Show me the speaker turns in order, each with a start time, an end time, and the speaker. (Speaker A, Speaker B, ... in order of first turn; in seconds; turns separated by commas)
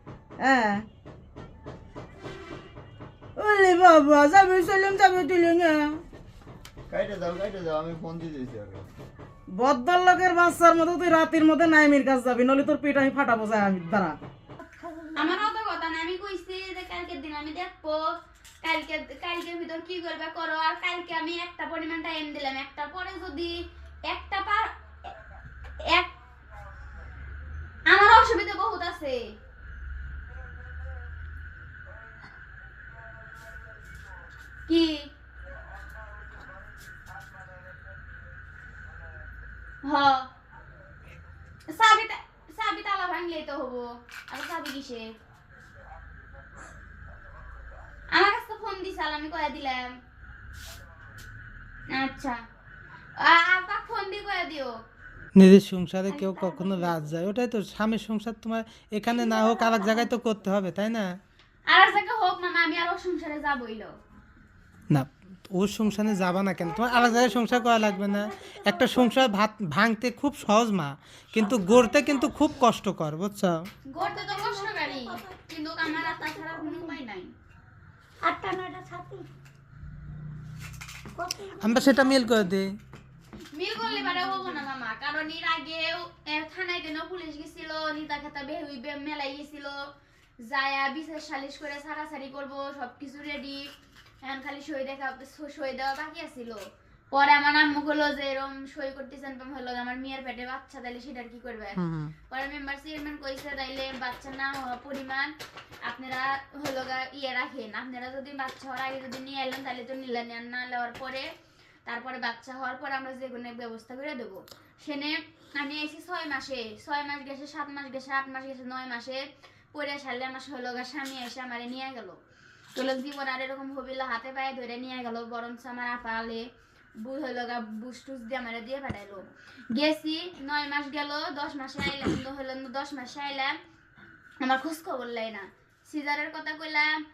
Speaker A: 0.4-0.8, Speaker A: 3.4-6.0, Speaker B: 6.9-8.9, Speaker A: 9.5-14.2, Speaker C: 14.9-15.2, Speaker D: 15.1-18.0, Speaker D: 18.6-24.7, Speaker D: 27.9-29.2, Speaker D: 34.7-35.1, Speaker D: 39.8-40.3, Speaker D: 41.7-45.1, Speaker D: 48.1-49.9, Speaker D: 51.9-52.4, Speaker D: 53.2-54.7, Speaker E: 55.4-61.1, Speaker C: 56.4-56.8, Speaker D: 61.7-64.0, Speaker E: 64.9-73.7, Speaker C: 67.2-69.1, Speaker D: 73.9-77.3, Speaker C: 74.2-75.2, Speaker C: 78.2-79.3, Speaker C: 81.1-82.3, Speaker E: 81.6-82.7, Speaker D: 83.5-89.8, Speaker D: 90.4-93.7, Speaker D: 94.2-101.8, Speaker E: 101.8-102.1, Speaker D: 102.3-105.3, Speaker D: 105.8-111.3, Speaker D: 111.8-119.2, Speaker D: 119.7-122.2, Speaker D: 122.7-126.5, Speaker D: 127.0-133.6, Speaker D: 134.4-136.9